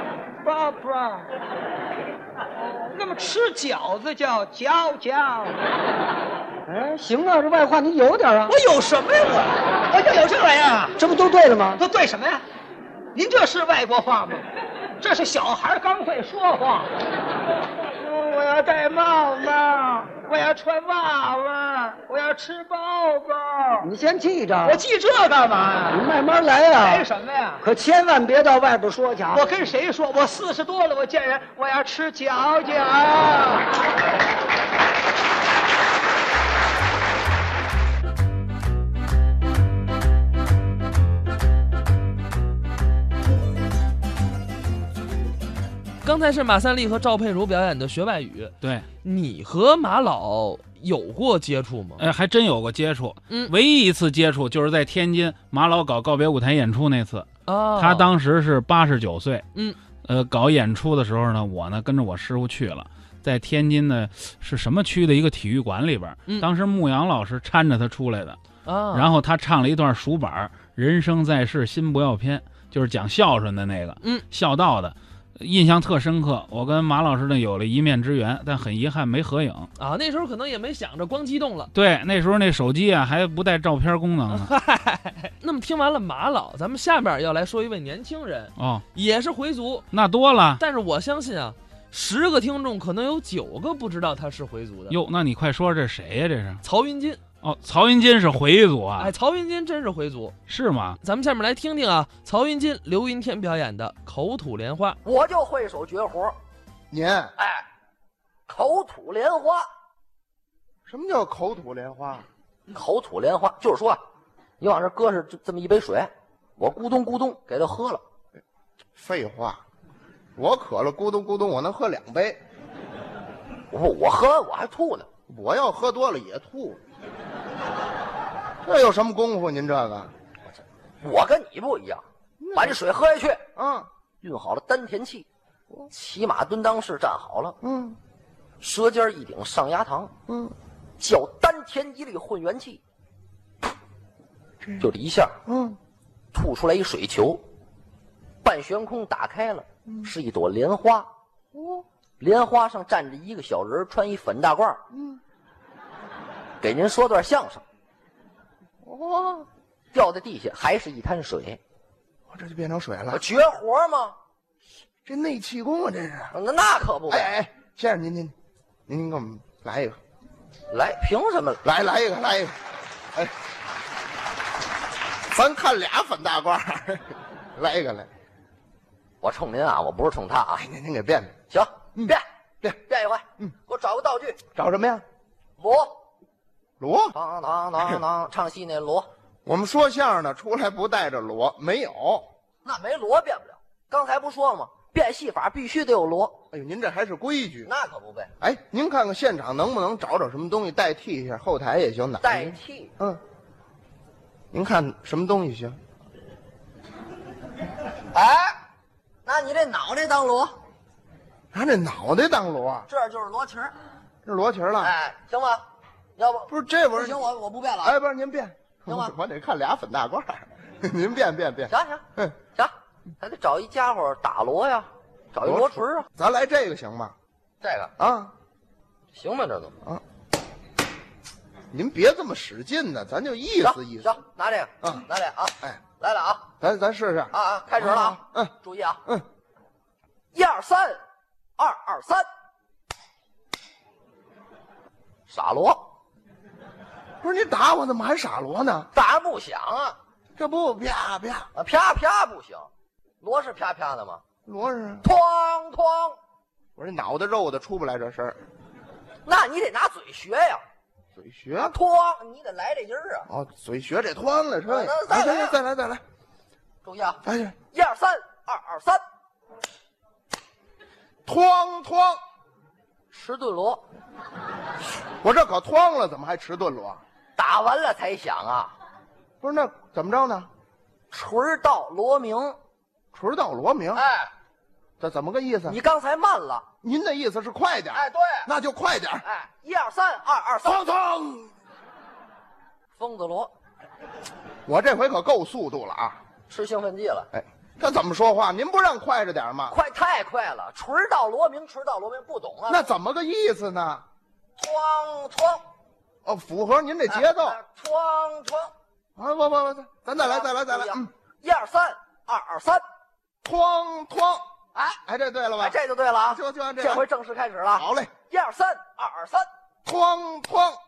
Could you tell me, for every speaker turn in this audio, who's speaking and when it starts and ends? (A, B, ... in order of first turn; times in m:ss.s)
0:00.4-0:01.3 A
0:02.6-0:05.6 B
0:06.7-0:08.6 A
0:08.5-0:11.0 B
0:11.0-0:11.8 A
0:11.8-0:12.4 B
0:13.2-0:14.5 B
0:15.0-0:16.9 B
0:18.0-0:23.9 B
0:23.8-0:24.8 A
0:24.6-0:26.1 B
0:25.9-0:27.1 A
0:26.8-0:27.6 B
0:27.6-0:29.4 A
0:29.3-0:33.8 B
0:46.0-0:52.1 C
0:48.6-0:48.9 D
0:52.0-1:19.7 D
0:53.3-0:53.5 C
0:57.5-0:58.1 C
0:59.5-0:59.8 C
1:08.6-1:09.1 C
1:14.0-1:14.3 C
1:19.8-1:21.7 C
1:21.7-1:24.5 D
1:24.3-1:29.9 C
1:28.6-1:28.8 D
1:29.9-1:30.6 D
1:30.6-1:35.0 C
1:34.9-1:36.6 D
1:36.6-1:37.2 C
1:37.4-1:39.2 D
1:39.0-1:40.4 C
1:40.5-1:41.0 D
1:41.0-1:45.0 C
1:45.0-1:46.4 E
1:46.9-1:47.3 F
1:47.4-1:47.6 E
1:48.5-1:49.7 E
1:50.9-1:52.3 F
1:52.7-1:54.0 E
1:54.6-1:58.0 E
1:59.0-1:59.6 F
2:00.4-2:02.4 F
2:03.7-2:05.1 E
2:05.3-2:06.8 F
2:08.6-2:10.1 F
2:10.5-2:12.0 E
2:12.4-2:12.8 F
2:12.6-2:13.4 E
2:13.6-2:13.9 F
2:14.2-2:15.3 E
2:15.9-2:17.6 E
2:17.6-2:18.0 F
2:18.6-2:20.1 E
2:20.3-2:20.6 F
2:21.0-2:22.8 E
2:24.8-2:25.4 E
2:25.5-2:25.8 F
2:26.3-2:27.4 E
2:28.4-2:31.1 E
2:31.5-2:31.8 F
2:32.2-2:34.8 E
2:34.9-2:35.2 F
2:36.6-2:37.6 E
2:38.8-2:39.5 F
2:39.9-2:41.6 E
2:42.3-2:43.2 F
2:43.1-2:44.2 E
2:45.1-2:46.3 F
2:46.3-2:47.3 E
2:47.1-2:48.3 F
2:48.9-2:50.0 F
2:50.7-2:51.6 E
2:51.6-2:52.6 F
2:55.3-2:58.1 F
2:59.2-3:00.7 E
3:00.6-3:01.3 F
3:01.5-3:02.2 E
3:02.0-3:02.8 F
3:02.8-3:04.4 E
3:04.6-3:05.0 F
3:05.6-3:06.0 E
3:06.8-3:07.2 F
3:07.1-3:09.1 E
3:09.5-3:12.3 F
3:12.6-3:16.4 E
3:16.5-3:17.7 F
3:17.6-3:18.3 E
3:18.4-3:23.2 F
3:22.2-3:22.9 E
3:24.5-3:25.8 F
3:28.1-3:28.6 E
3:29.2-3:30.6 E
3:31.5-3:32.9 F
3:32.9-3:33.7 E
3:34.3-3:34.9 F
3:34.8-3:35.6 E
3:36.2-3:38.0 E
3:36.5-3:37.3 F
3:37.8-3:42.4 F
3:38.9-3:39.2 E
3:41.7-3:46.1 E
3:45.4-3:47.2 F
3:47.6-3:47.9 E
3:48.0-3:48.3 F
3:49.1-3:49.7 E
3:51.7-3:54.1 F
3:53.6-3:56.5 E
3:56.6-3:58.5 F
3:57.3-3:59.0 E
4:00.3-4:01.0 E
4:01.6-4:02.3 E
4:05.3-4:05.8 E
4:07.2-4:08.9 F
4:08.9-4:10.0 E
4:10.4-4:11.5 F
4:11.6-4:12.7 E
4:13.2-4:14.2 E
4:14.5-4:15.0 F
4:15.0-4:16.2 E
4:16.8-4:18.4 F
4:19.2-4:20.6 E
4:21.2-4:21.8 F
4:21.6-4:23.3 E
4:23.3-4:26.0 F
4:24.7-4:25.6 E
4:26.8-4:29.0 E
4:27.2-4:27.6 F
4:31.3-4:32.2 F
4:33.1-4:33.8 E
4:35.2-4:37.0 F
4:37.4-4:38.7 E
4:39.4-4:40.5 F
4:41.1-4:42.6 E
4:43.1-4:44.0 F
4:43.9-4:44.3 E
4:45.0-4:45.8 F
4:45.7-4:46.6 E
4:46.8-4:49.2 F
4:47.9-4:48.5 E
4:49.2-4:50.9 E
4:50.6-4:51.5 F
4:53.0-4:53.5 E
4:54.7-4:56.2 F
4:56.5-4:57.3 E
4:57.3-4:59.8 F
4:59.7-5:02.8 E
5:02.7-5:04.0 F
5:04.6-5:05.6 E
5:06.2-5:07.6 F
5:07.1-5:08.7 E
5:09.2-5:11.1 F
5:10.2-5:12.8 E
5:13.4-5:14.4 F
5:14.7-5:15.0 E
5:15.1-5:15.8 F
5:15.6-5:19.5 E
5:16.3-5:17.0 F
5:17.7-5:18.1 F
5:19.8-5:20.8 F